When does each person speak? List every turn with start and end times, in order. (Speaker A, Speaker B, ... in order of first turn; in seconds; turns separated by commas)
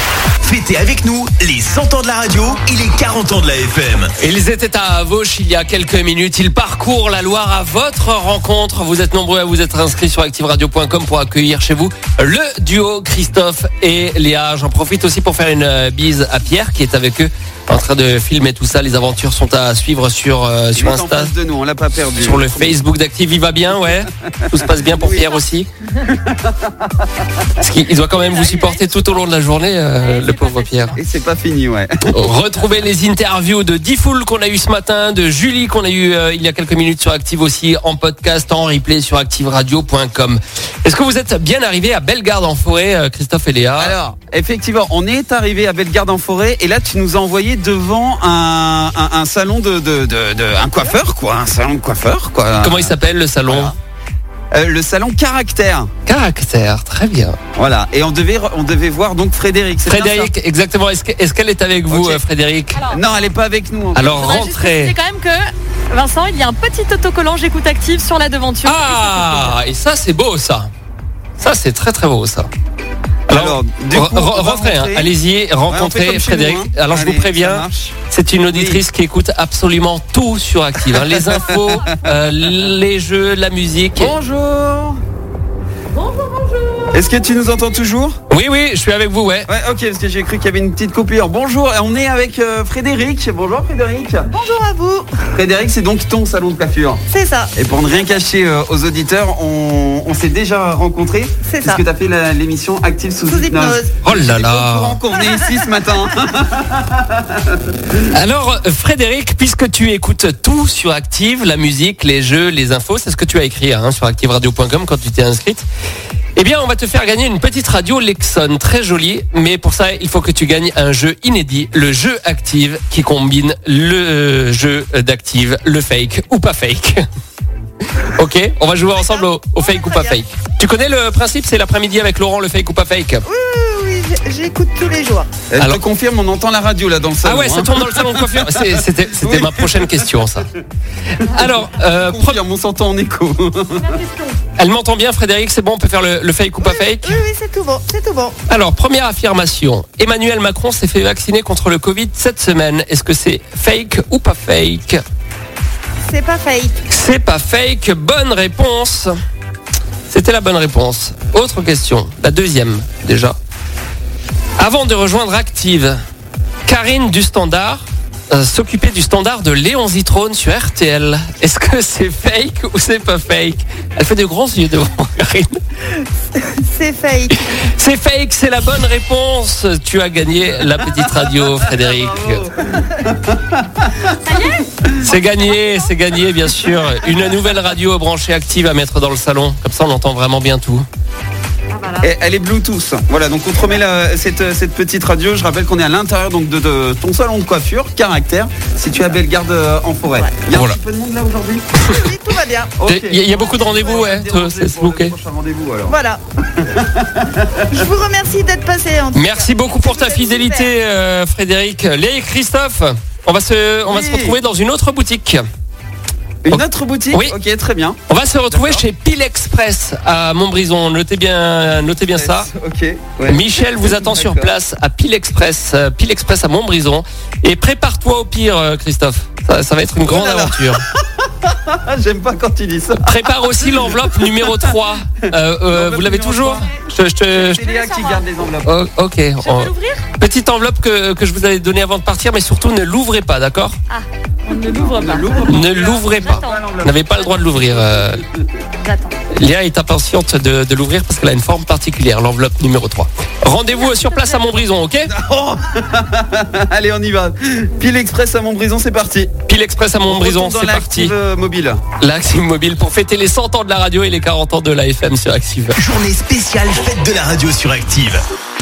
Speaker A: 0.4-4.1, Speaker B: 4.2-21.3, Speaker C: 20.8-22.7, Speaker B: 22.2-25.7, Speaker C: 23.9-25.4, Speaker C: 26.1-27.0, Speaker B: 27.6-30.9, Speaker D: 28.1-29.2, Speaker D: 30.0-31.0, Speaker C: 30.9-32.1, Speaker B: 32.1-43.9, Speaker C: 43.8-53.0, Speaker B: 52.6-53.8, Speaker C: 53.5-53.8, Speaker C: 54.5-55.9, Speaker B: 56.0-57.4, Speaker C: 57.5-60.3, Speaker B: 59.9-62.9, Speaker C: 61.9-62.2, Speaker C: 62.9-64.2, Speaker B: 63.9-64.9, Speaker D: 64.2-69.5, Speaker B: 68.6-70.7, Speaker B: 71.4-72.5, Speaker C: 73.3-75.1, Speaker B: 73.3-84.1, Speaker C: 75.7-78.0, Speaker C: 78.5-78.8, Speaker C: 80.9-82.1, Speaker C: 84.0-85.0, Speaker C: 86.9-88.2, Speaker B: 88.3-89.5, Speaker C: 89.5-94.3, Speaker E: 94.3-95.2, Speaker C: 95.3-97.0, Speaker E: 97.1-97.5, Speaker C: 97.5-107.6, Speaker E: 101.4-101.8, Speaker E: 103.3-103.9, Speaker B: 104.0-105.0, Speaker B: 108.0-115.6, Speaker B: 116.3-127.0, Speaker B: 127.9-133.2, Speaker E: 128.9-130.2, Speaker E: 133.2-135.3, Speaker C: 135.5-140.1, Speaker B: 137.2-140.5, Speaker B: 141.1-142.4, Speaker C: 141.3-144.0, Speaker E: 144.0-144.3, Speaker B: 144.6-147.2, Speaker E: 146.6-148.3, Speaker B: 148.5-155.0, Speaker E: 156.1-156.8, Speaker B: 156.9-159.1, Speaker B: 160.1-163.4, Speaker B: 164.6-166.0, Speaker B: 166.7-175.6, Speaker E: 176.3-177.4, Speaker B: 177.5-182.5, Speaker C: 181.7-184.0, Speaker D: 184.2-185.7, Speaker B: 185.0-190.8, Speaker D: 191.7-192.1, Speaker C: 192.0-201.7, Speaker B: 200.5-200.8, Speaker B: 201.8-202.1, Speaker E: 201.8-202.7, Speaker C: 202.8-206.0, Speaker B: 202.8-205.1, Speaker E: 205.9-206.2, Speaker C: 206.5-207.7, Speaker E: 207.7-210.7, Speaker B: 209.1-215.4, Speaker C: 213.9-214.4, Speaker C: 216.4-218.8, Speaker B: 216.5-217.3, Speaker B: 218.1-222.5, Speaker C: 221.9-224.5, Speaker B: 223.3-230.8, Speaker C: 230.1-234.8, Speaker B: 233.0-237.6, Speaker C: 235.7-236.7, Speaker C: 237.3-238.7, Speaker D: 237.6-238.2, Speaker B: 238.6-243.8, Speaker D: 239.4-240.1, Speaker D: 243.9-246.7, Speaker C: 244.7-248.4, Speaker B: 245.4-248.2, Speaker D: 248.8-249.1, Speaker B: 249.3-255.1, Speaker D: 253.8-254.4, Speaker C: 255.1-259.3, Speaker B: 259.4-261.1, Speaker C: 260.1-261.8, Speaker B: 262.0-265.8, Speaker A: 265.8-268.2